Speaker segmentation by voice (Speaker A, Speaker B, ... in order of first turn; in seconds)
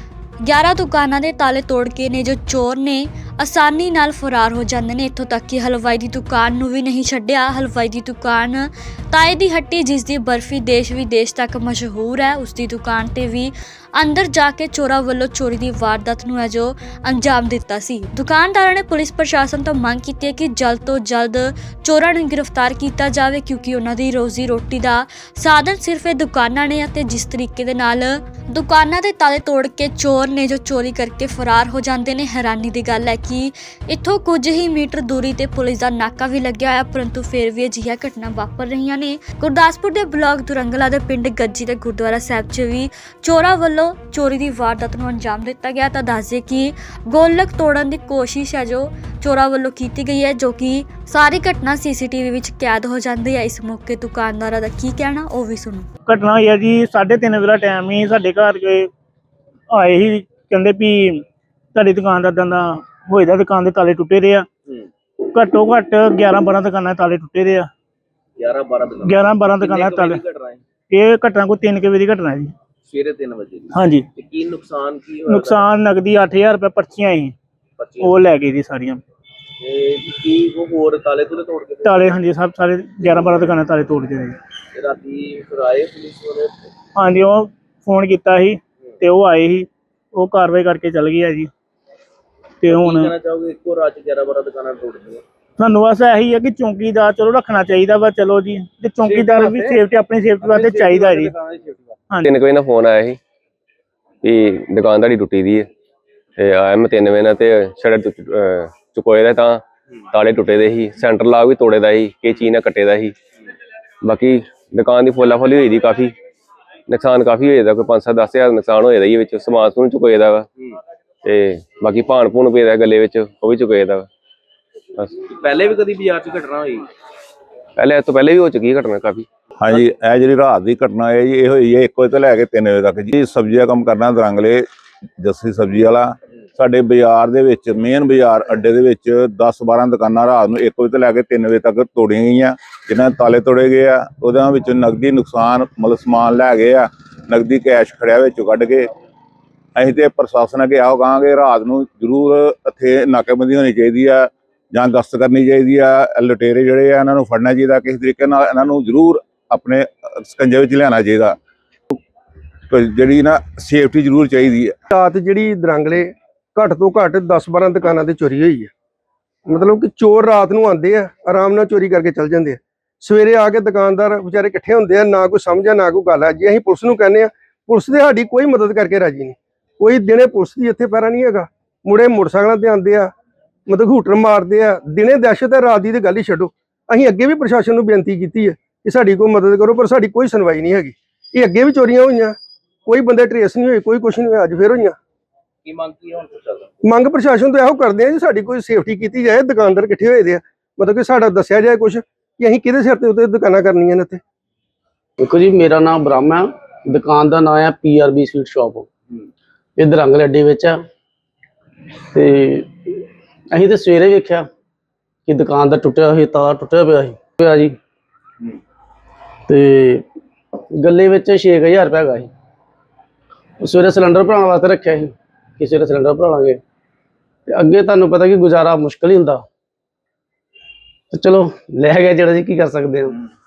Speaker A: 0.4-55.9
Speaker B: 56.1-58.9, 59.7-61.2, 61.8-64.5, 65.3-67.7, 69.0-70.2, 70.9-72.5, 73.7-74.1, 75.2-77.3, 78.0-79.0, 81.8-84.4, 87.0-91.5, 92.6-93.2, 95.6-101.3
Speaker C: 68.4-70.6, 72.8-75.7, 77.8-78.1, 79.6-82.2, 84.7-86.6, 92.7-95.2, 99.1-99.8, 100.4-102.0, 125.2-126.9, 195.7-196.7
Speaker D: 102.2-103.2, 104.2-105.7, 106.4-113.2, 114.0-116.1, 116.9-120.5, 121.2-124.1, 127.8-129.3
Speaker E: 129.6-134.7, 135.2-148.9, 149.8-161.4, 162.7-164.8
Speaker F: 164.9-168.7, 169.5-183.1, 183.7-195.0, 196.8-204.2
Speaker G: 205.2-208.9, 209.8-210.8, 212.1-213.0, 213.5-214.5, 215.3-217.8, 219.5-220.0, 220.8-222.3, 223.6-226.6, 227.5-229.4, 231.1-233.2